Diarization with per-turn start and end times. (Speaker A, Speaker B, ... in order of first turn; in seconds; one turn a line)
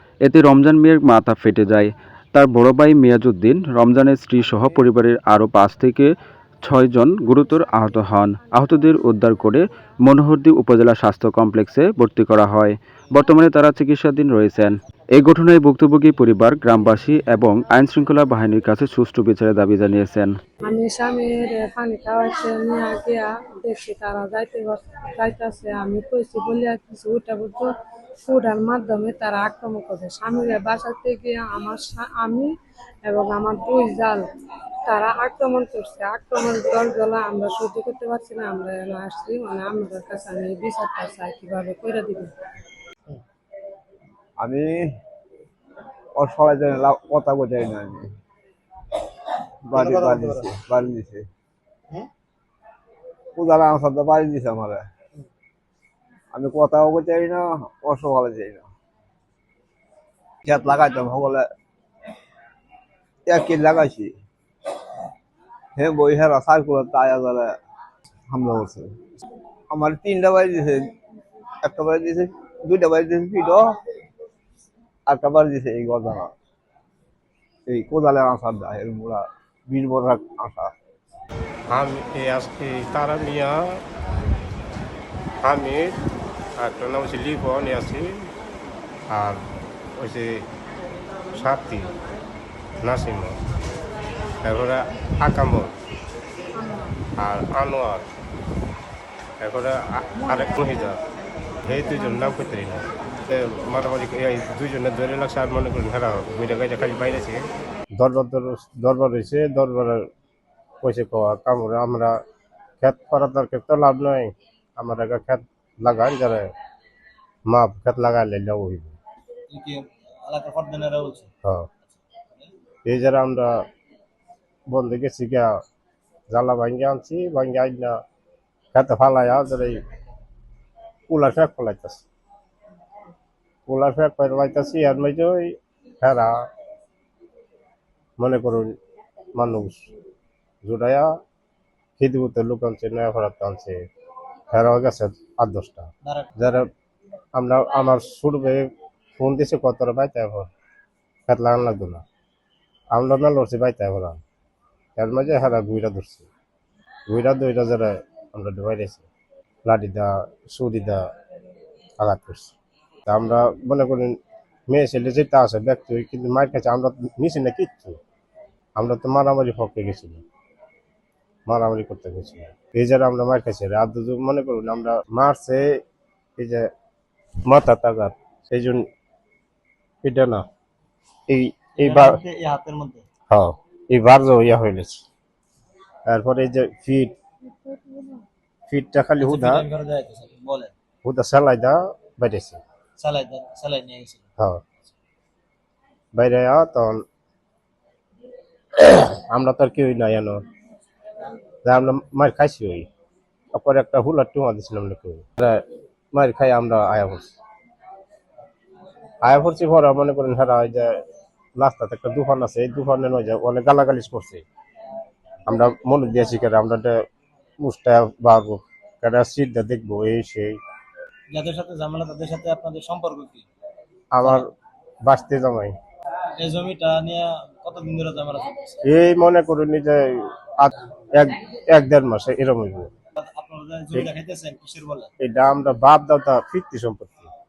Speaker A: 0.2-6.1
Speaker A: 6.6-20.3
Speaker B: 20.7-27.7
Speaker B: 28.3-32.5
Speaker B: 33.0-34.2
Speaker B: 34.9-42.3
Speaker C: 44.4-44.9
Speaker C: 46.2-48.1
Speaker C: 49.6-51.2
Speaker D: 49.7-50.5
Speaker C: 53.4-54.8
Speaker C: 56.3-58.7
Speaker C: 60.5-61.5
Speaker C: 63.3-64.1
Speaker C: 65.8-67.5
Speaker C: 68.3-68.9
Speaker C: 69.7-70.9
Speaker C: 71.6-73.7
Speaker C: 75.1-76.3
Speaker C: 77.7-80.7
Speaker E: 81.7-83.8
Speaker E: 85.4-86.0
Speaker E: 86.6-88.1
Speaker E: 89.1-89.4
Speaker E: 90.0-90.4
Speaker E: 91.3-91.9
Speaker E: 92.8-93.3
Speaker E: 94.4-95.7
Speaker B: 96.6-96.9
Speaker E: 97.2-98.1
Speaker E: 99.4-101.0
Speaker E: 101.7-107.4
Speaker E: 108.0-110.0
Speaker E: 110.8-112.1
Speaker E: 112.8-116.5
Speaker E: 117.5-118.9
Speaker D: 119.5-121.3
Speaker D: 122.0-122.5
Speaker E: 122.8-123.5
Speaker E: 124.7-125.5
Speaker E: 126.3-128.0
Speaker E: 128.7-129.8
Speaker E: 131.1-132.0
Speaker E: 133.7-136.3
Speaker E: 138.2-138.7
Speaker E: 139.4-139.9
Speaker E: 140.6-141.1
Speaker E: 142.0-143.8
Speaker E: 144.5-146.7
Speaker D: 146.0-146.3
Speaker E: 147.3-150.5
Speaker E: 151.3-152.0
Speaker E: 152.9-154.2
Speaker E: 155.0-156.3
Speaker E: 157.1-159.0
Speaker E: 159.7-161.0
Speaker E: 162.0-162.5
Speaker E: 163.1-164.1
Speaker E: 164.7-168.0
Speaker E: 168.8-170.2
Speaker E: 171.5-175.7
Speaker E: 176.4-176.7
Speaker E: 177.5-178.8
Speaker E: 180.0-180.4
Speaker E: 181.3-182.2
Speaker D: 181.8-183.1
Speaker E: 183.3-185.0
Speaker E: 186.1-187.2
Speaker E: 188.7-189.6
Speaker D: 189.2-190.7
Speaker E: 191.0-192.6
Speaker D: 193.0-194.2
Speaker E: 196.1-197.0
Speaker E: 198.8-200.4
Speaker E: 201.6-202.8
Speaker E: 203.5-205.6
Speaker E: 206.1-207.3
Speaker E: 209.2-210.9
Speaker E: 211.6-214.4
Speaker E: 215.5-217.0
Speaker E: 217.6-220.6
Speaker D: 221.3-223.4
Speaker E: 224.1-224.5
Speaker E: 225.1-225.7
Speaker D: 226.4-228.8
Speaker E: 228.8-230.0
Speaker E: 230.6-232.9
Speaker D: 233.2-235.1
Speaker E: 235.2-237.3